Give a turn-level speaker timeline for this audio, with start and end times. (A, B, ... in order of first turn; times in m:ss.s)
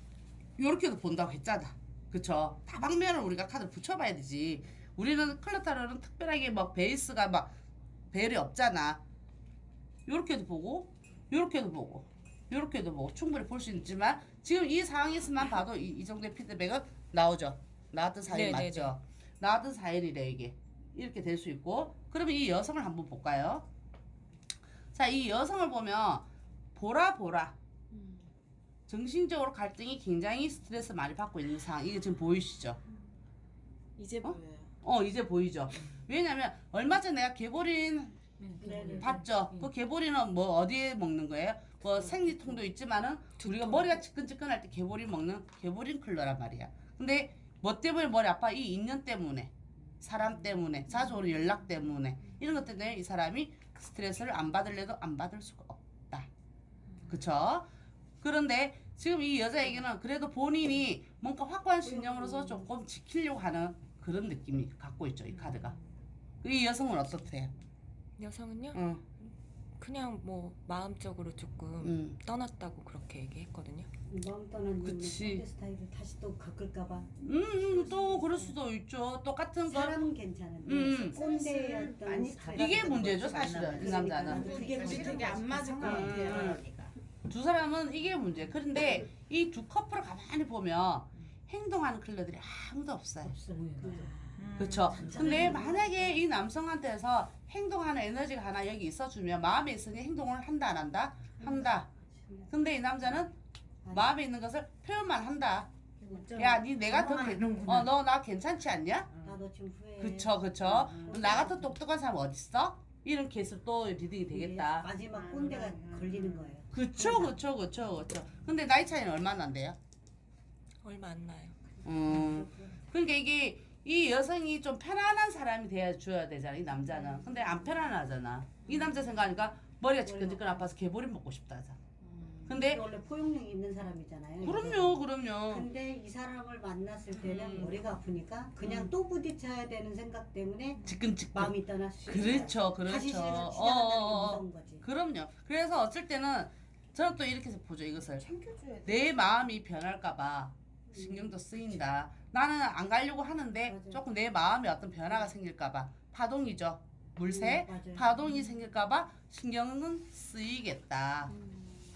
0:00.6-0:07.5 A
0:08.1-0:09.0 A
0:10.1-0:23.6 A
0:18.3-0:18.9 B
0:24.9-0:27.5 A
0:27.9-0:28.3 C
0:28.9-0:32.8 A
0:34.0-0:34.7 C
0:34.2-0:38.2 A
0:38.4-0:39.7 D
0:38.6-0:39.2 E
0:39.0-0:56.3 A
0:43.4-0:44.0 B
0:57.1-0:57.7 A
0:58.2-1:05.8 A
1:06.4-1:07.5 A
1:08.2-1:08.8 B
1:08.7-1:09.0 A
1:09.8-1:13.9 B
1:11.8-1:12.2 A
1:14.1-1:18.6 E
1:14.8-1:15.4 A
1:17.2-1:20.0 A
1:19.7-1:26.6 E
1:20.6-1:21.2 A
1:21.1-1:26.9 C
1:22.5-1:24.5 A
1:24.7-1:26.4 D
1:26.0-1:26.6 A
1:27.3-1:33.4 A
1:33.2-1:34.1 D
1:33.8-1:34.1 E
1:34.3-1:35.6 C
1:34.6-1:41.9 A
1:34.9-1:35.4 D
1:34.9-1:35.9 E
1:41.4-1:42.5 E
1:42.5-1:43.4 A
1:43.8-1:44.1 E
1:43.9-1:45.7 A
1:46.0-1:47.9 C
1:46.4-1:49.1 A
1:49.1-1:49.4 C
1:49.2-1:51.7 E
1:50.0-1:54.9 A
1:50.6-1:51.4 C
1:54.3-1:57.4 E
1:55.1-1:56.6 C
1:56.7-1:59.8 A
2:00.8-2:01.6 B
2:01.8-2:11.8 A
2:02.0-2:02.8 E
2:08.6-2:08.9 C
2:10.0-2:10.7 E
2:12.0-2:12.6 C
2:12.4-2:12.8 A
2:12.6-2:24.8 E
2:14.4-2:15.7 A
2:17.1-2:17.8 A
2:20.8-2:28.3 A
2:22.1-2:22.5 C
2:28.2-2:29.0 C
2:28.8-2:41.3 A
2:30.9-2:31.3 E
2:33.7-2:34.0 E
2:37.2-2:38.2 E